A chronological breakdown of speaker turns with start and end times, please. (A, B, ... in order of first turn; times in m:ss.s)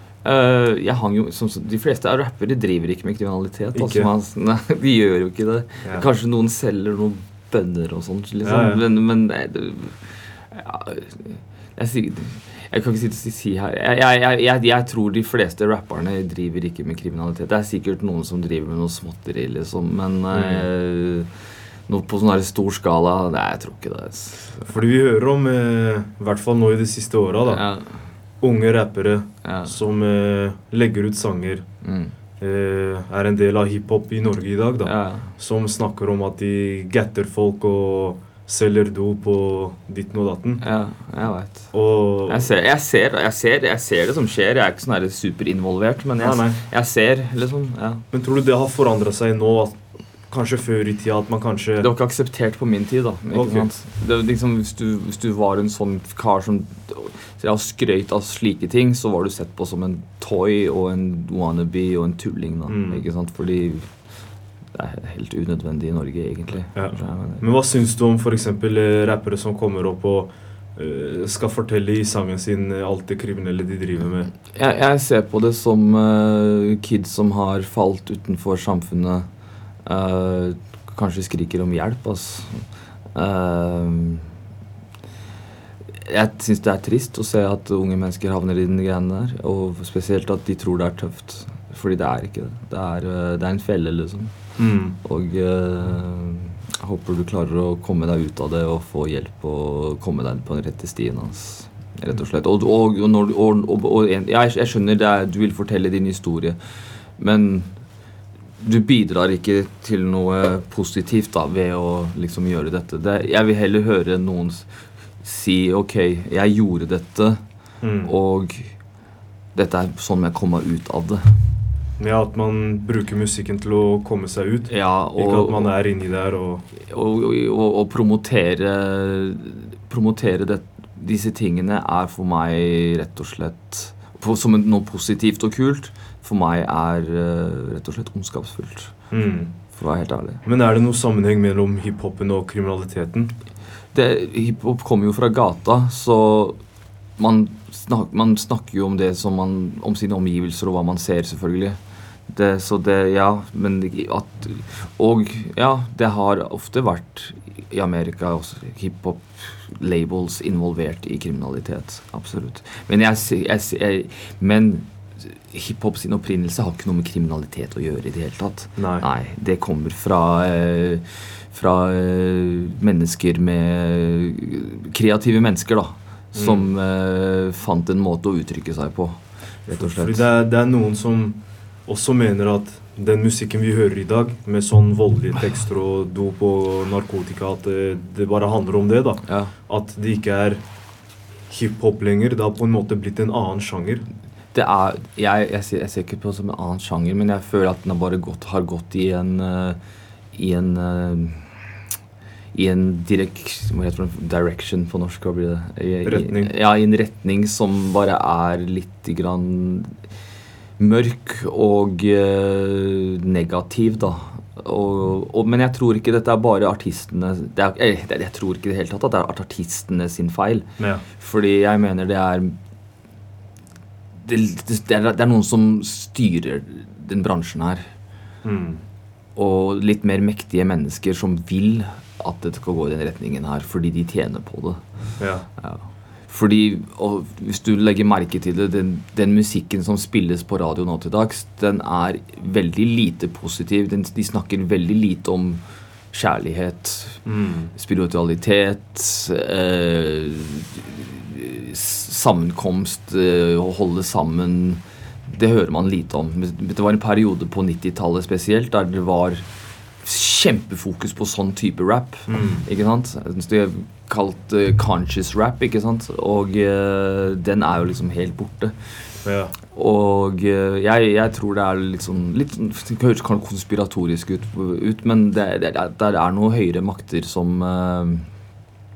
0:00.2-0:21.3 A
0:03.7-0:04.1 B
0:08.4-0:08.8 B
0:20.3-0:20.7 B
0:21.9-0:24.8 A
0:24.7-0:27.8 B
0:27.4-0:28.1 A
0:28.4-0:40.6 B
0:29.4-0:29.8 A
0:31.8-0:32.1 A
0:34.8-0:35.4 A
0:40.6-0:48.0 A
0:41.7-0:42.5 B
0:46.2-0:46.6 B
0:48.1-0:51.9 B
0:51.8-1:07.5 A
0:53.3-0:53.7 B
1:02.7-1:03.0 B
1:06.7-1:14.3 B
1:14.4-1:24.3 A
1:26.0-1:47.9 A
1:34.6-1:35.0 B
1:48.6-1:58.8 A
1:57.8-1:58.1 B
1:59.5-2:01.4 A
2:02.0-2:06.6 B
2:04.7-2:05.9 A
2:06.8-2:20.4 A
2:19.1-2:19.8 B
2:20.4-2:23.3 B
2:23.9-2:26.6 A
2:27.2-3:00.4 A
2:48.8-2:49.0 B
2:56.3-2:56.7 B
2:59.7-3:10.7 B
3:09.2-3:09.5 A
3:11.5-3:14.0 B
3:14.5-3:19.8 A
3:20.3-3:21.6 A
3:22.5-3:30.0 A
3:26.0-3:26.5 B
3:30.8-3:42.6 A
3:40.8-3:41.0 B
3:44.2-3:47.9 A
3:48.4-3:48.8 B
3:49.3-4:19.4 A
3:55.2-3:55.5 B
4:07.2-4:07.7 B
4:20.0-4:29.1 A
4:22.3-4:22.6 B
4:29.2-4:29.5 B
4:29.7-4:38.3 A